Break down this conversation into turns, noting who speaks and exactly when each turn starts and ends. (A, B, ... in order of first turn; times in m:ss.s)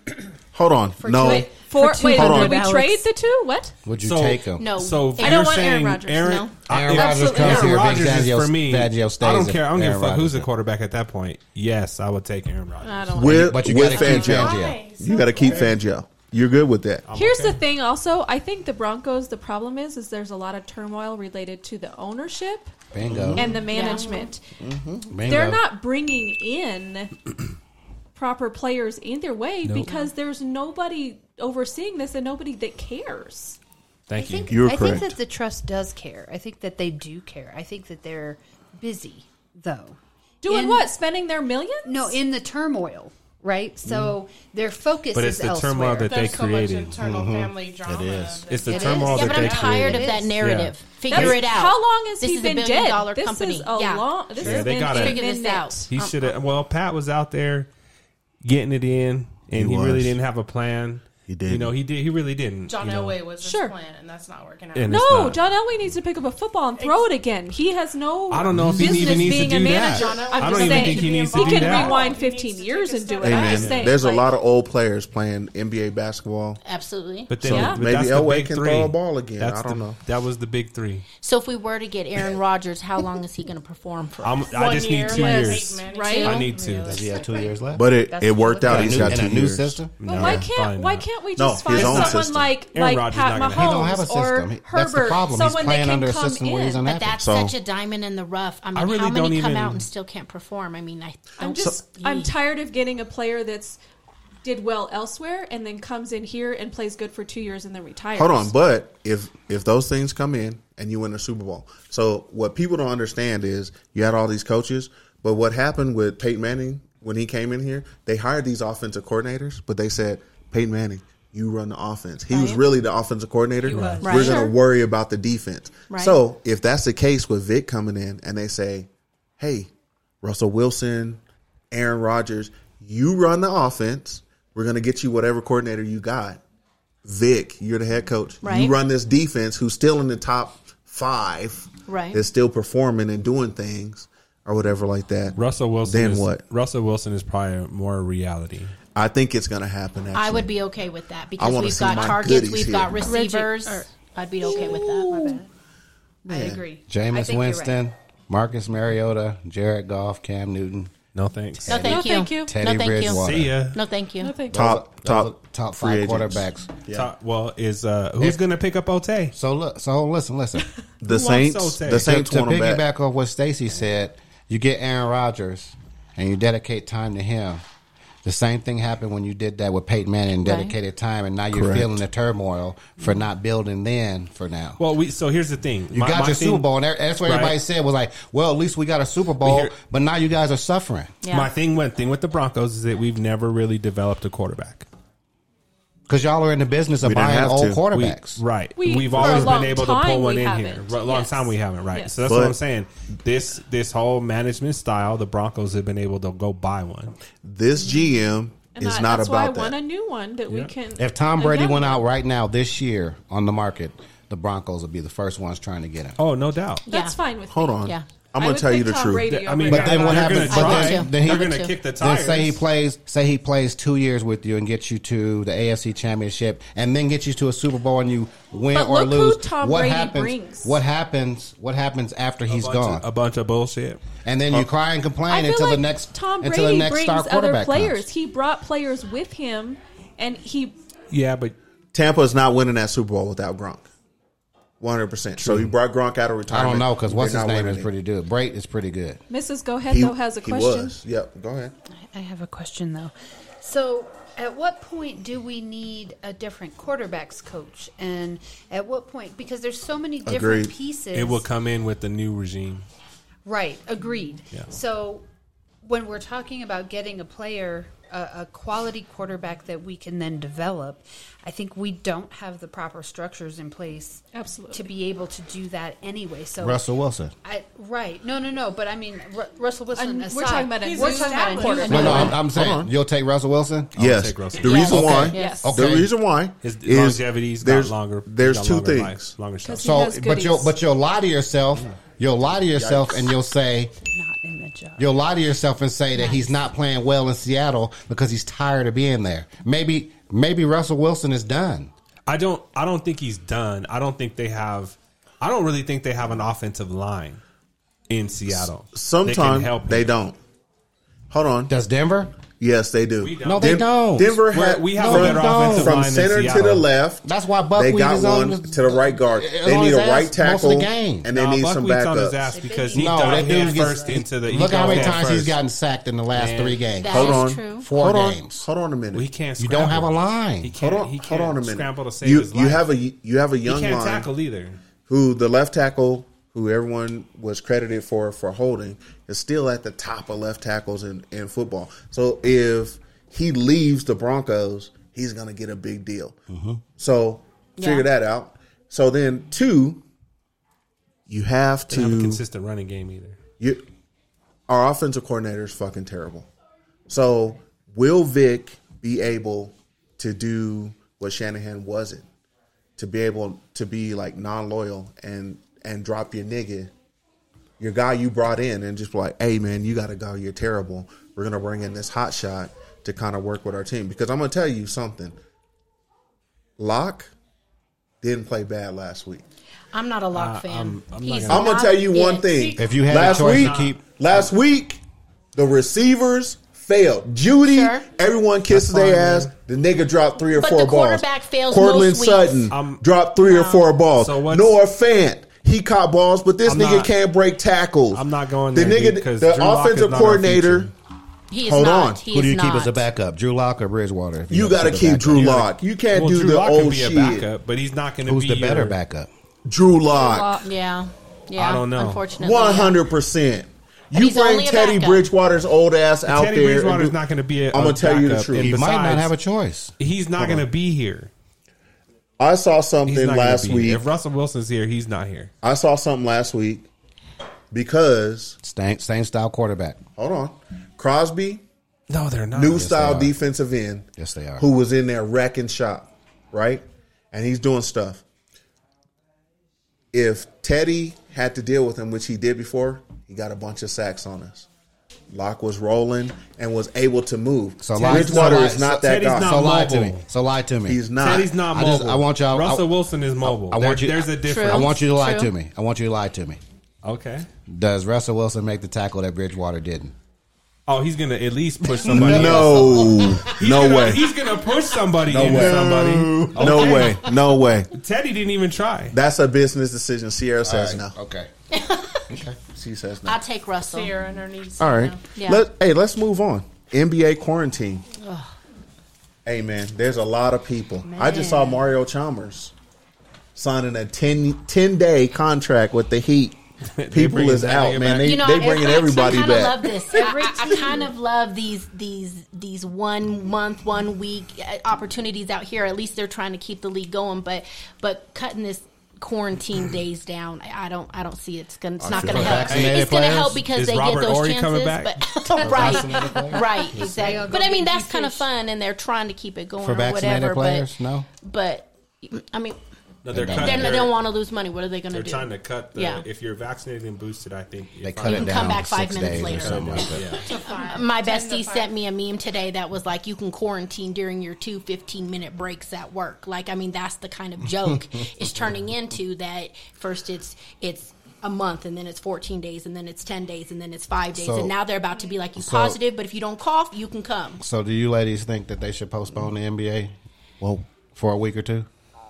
0:00.5-0:02.6 A
0:01.0-0:03.0 B
0:01.2-0:03.8 C
0:03.9-0:04.7 D
0:04.0-0:13.5 E
0:04.6-0:06.6 F
0:05.2-0:08.0 C
0:06.7-0:10.5 D
0:12.8-0:13.3 C
0:13.2-0:17.1 A
0:13.2-0:14.8 D
0:13.8-0:15.8 G
0:17.1-0:17.6 E
0:17.1-0:22.7 C
0:22.9-0:23.6 D
0:23.1-0:23.6 A
0:23.4-0:24.5 C
0:23.7-0:24.3 F
0:23.8-0:24.3 G
0:24.6-0:25.1 A
0:25.1-0:25.6 D
0:25.2-0:27.1 C
0:28.2-0:33.6 C
0:29.6-0:29.9 E
0:34.1-0:35.0 E
0:34.2-0:40.9 B
0:34.5-0:35.1 A
0:40.4-0:42.2 C
0:41.8-0:46.2 B
0:45.1-0:47.0 E
0:46.0-0:50.3 G
0:47.0-0:48.5 D
0:48.5-0:51.4 E
0:48.7-0:50.3 B
0:49.1-0:56.4 F
0:51.1-0:55.9 C
0:54.4-0:55.2 E
0:55.9-0:57.7 E
0:58.4-1:03.2 E
0:59.5-1:00.2 A
1:01.3-1:01.8 A
1:02.7-1:05.3 G
1:03.4-1:03.8 C
1:04.7-1:05.4 E
1:04.9-1:14.2 C
1:06.8-1:07.2 G
1:08.3-1:12.1 E
1:08.6-1:09.4 A
1:09.5-1:14.1 G
1:13.2-1:16.6 A
1:13.4-1:13.9 E
1:16.6-1:17.4 F
1:17.3-1:21.0 E
1:17.4-1:20.0 A
1:17.4-1:17.8 C
1:21.2-1:24.6 F
1:24.2-1:27.1 E
1:24.5-1:27.7 G
1:25.1-1:26.5 C
1:26.8-1:27.9 D
1:27.7-1:30.5 A
1:28.1-1:29.0 B
1:28.6-1:30.0 D
1:28.7-1:29.3 E
1:30.0-1:31.1 E
1:30.0-1:36.9 C
1:31.4-1:32.5 A
1:31.6-1:33.9 E
1:33.4-1:37.2 D
1:36.8-1:42.3 F
1:37.2-1:37.6 A
1:38.8-1:39.8 E
1:41.4-1:43.8 C
1:44.4-1:48.5 C
1:48.1-2:08.9 A
2:02.3-2:02.6 F
2:03.6-2:04.1 E
2:03.7-2:04.4 B
2:04.0-2:04.5 F
2:04.1-2:04.6 C
2:05.9-2:06.2 F
2:09.4-2:09.7 A
2:10.2-2:16.4 A
2:17.0-2:26.4 A
2:18.4-2:18.8 F
2:21.9-2:22.2 F
2:25.4-2:28.8 E
2:29.0-2:30.5 A
2:30.1-2:35.4 F
2:31.4-2:33.2 A
2:33.1-2:33.8 G
2:34.4-2:34.8 G
2:34.4-2:35.5 B
2:36.2-2:37.8 B
2:36.3-2:36.6 A
2:36.9-2:40.9 D
2:41.2-2:41.9 E
2:41.7-2:43.7 D
2:41.7-2:44.5 F
2:41.8-2:42.6 C
2:43.0-2:43.8 E
2:44.2-2:44.7 C
2:44.5-2:46.7 D
2:44.5-2:47.1 A
2:46.9-2:49.3 E
2:49.3-2:50.7 D
2:51.0-2:52.8 A
2:51.0-2:52.2 E
2:51.9-2:57.6 D
2:58.2-3:04.8 D
3:00.4-3:00.8 F
3:01.5-3:01.9 A
3:04.8-3:06.7 E
3:05.9-3:11.2 D
3:07.2-3:07.6 E
3:09.4-3:09.8 E
3:11.2-3:11.5 F
3:11.3-3:14.9 E
3:16.1-3:18.4 D
3:17.0-3:17.8 A
3:17.9-3:27.2 E
3:18.8-3:22.2 C
3:19.2-3:19.6 D
3:22.2-3:22.6 A
3:27.4-3:29.8 A
3:28.7-3:32.0 C
3:31.0-3:36.2 D
3:36.2-3:36.8 E
3:36.9-3:37.2 F
3:36.9-3:41.0 C
3:37.5-3:40.6 A
3:37.8-3:38.1 F
3:39.3-3:42.6 E
3:39.7-3:53.1 D
3:40.5-3:41.7 F
3:48.7-3:50.8 C
3:52.5-3:54.0 E
3:54.2-3:58.1 D
3:55.3-4:00.8 C
4:01.1-4:01.6 E
4:01.9-4:03.9 A
4:04.8-4:07.9 A
4:05.4-4:05.7 D
4:06.5-4:09.2 D
4:09.3-4:11.0 C
4:09.9-4:11.7 A
4:12.0-4:21.5 B
4:20.2-4:20.7 A
4:21.1-4:22.9 E
4:23.5-4:25.2 B
4:25.8-4:36.9 B
4:34.3-4:34.9 C
4:36.6-4:37.3 D
4:37.4-4:42.3 B
4:39.9-4:42.4 C
4:40.8-4:42.4 G
4:41.9-4:43.9 D
4:41.9-4:42.9 A
4:44.0-4:45.2 E
4:44.0-4:49.4 A
4:44.6-4:45.7 F
4:44.8-4:46.1 D
4:45.3-4:45.8 C
4:46.6-4:50.0 E
4:49.6-4:50.7 C
4:49.8-4:53.9 D
4:52.7-4:53.3 A
4:54.0-4:55.1 B
4:55.0-5:01.9 D
4:56.2-4:56.6 F
5:02.3-5:07.4 E
5:08.1-5:10.1 E
5:08.5-5:10.4 A
5:11.3-5:11.7 A
5:11.7-5:12.3 D
5:12.6-5:22.6 A
5:13.2-5:13.9 E
5:13.4-5:16.0 D
5:14.5-5:16.9 E
5:17.2-5:21.3 D
5:21.3-5:25.6 E
5:22.5-5:24.2 B
5:22.9-5:28.7 D
5:24.8-5:25.2 A
5:26.3-5:26.8 E
5:27.0-5:27.9 F
5:27.1-5:29.3 A
5:29.1-5:32.9 E
5:29.6-5:30.7 D
5:30.8-5:34.3 A
5:33.7-5:34.8 E
5:35.1-5:46.4 A
5:46.5-5:46.8 D
5:47.0-5:50.0 A
5:47.8-5:48.1 F
5:51.3-5:52.4 A
5:51.9-5:53.4 E
5:54.7-5:56.5 A
5:57.1-6:02.2 A
6:03.0-6:06.9 A
6:07.8-6:15.4 A
6:16.8-6:17.3 A
6:18.2-6:19.4 A
6:19.9-6:22.5 F
6:20.3-6:21.8 E
6:21.5-6:25.0 A
6:22.4-6:23.0 G
6:22.8-6:24.0 D
6:23.1-6:24.0 E
6:25.6-6:40.9 A
6:27.6-6:28.1 F
6:28.7-6:29.5 E
6:30.5-6:32.7 F
6:32.7-6:33.0 E
6:33.4-6:34.0 F
6:34.2-6:34.8 E
6:36.7-6:37.1 E
6:38.1-6:40.9 E
6:41.5-6:43.0 F
6:41.6-6:42.2 A
6:42.3-6:45.6 D
6:44.5-6:47.5 A
6:45.3-6:49.0 E
6:48.2-6:49.3 D
6:49.7-6:50.6 A
6:50.1-6:50.6 C
6:50.6-6:53.0 F
6:51.6-6:52.2 E
6:52.4-6:57.2 A
6:54.1-6:55.3 F
6:56.3-6:59.3 E
6:57.7-6:58.8 A
6:58.6-6:59.9 D
7:00.0-7:01.3 E
7:00.4-7:00.6 A
7:02.4-7:04.0 A
7:03.0-7:05.5 E
7:05.6-7:06.9 A
7:07.7-7:08.6 A
7:08.6-7:10.0 D
7:10.2-7:11.6 A
7:12.1-7:12.9 E
7:12.5-7:18.2 A
7:12.7-7:13.4 D
7:14.2-7:14.6 D
7:20.1-7:24.7 A
7:25.3-7:29.6 A
7:27.8-7:36.6 D
7:28.0-7:30.2 E
7:30.8-7:31.7 A
7:31.2-7:35.0 E
7:34.4-7:35.5 F
7:37.0-7:37.5 E
7:37.7-7:40.2 D
7:40.9-7:47.3 E
7:41.9-7:43.6 D
7:42.0-7:44.4 A
7:45.2-7:47.9 A
7:45.4-7:47.1 D
7:47.9-7:49.2 E
7:49.1-7:51.1 A
7:50.6-7:51.5 D
7:51.7-7:52.2 F
7:52.3-7:52.6 D
7:52.7-7:53.4 A
7:53.2-7:54.2 F
7:53.8-7:55.3 G
7:54.8-7:58.1 A
7:55.3-7:55.7 F
7:58.2-7:58.5 F
7:59.4-8:02.7 A
8:01.0-8:01.9 G
8:03.6-8:06.6 A
8:07.0-8:08.6 E
8:07.1-8:09.9 A
8:08.2-8:32.8 F
8:08.5-8:09.2 B
8:10.1-8:11.1 B
8:10.1-8:11.1 G
8:22.0-8:22.8 A
8:22.1-8:23.7 D
8:22.2-8:22.9 G
8:22.6-8:25.8 E
8:25.6-8:27.4 D
8:25.8-8:26.2 G
8:26.0-8:28.5 B
8:29.8-8:31.3 D
8:33.2-8:34.2 E
8:33.3-8:34.1 D
8:33.5-8:36.3 F
8:35.1-8:40.5 E
8:38.0-8:40.4 D
8:38.2-8:57.6 F
8:40.4-8:42.0 G
8:47.6-8:48.8 D
8:54.3-8:54.8 D
8:55.6-8:56.0 D
8:57.6-9:01.9 D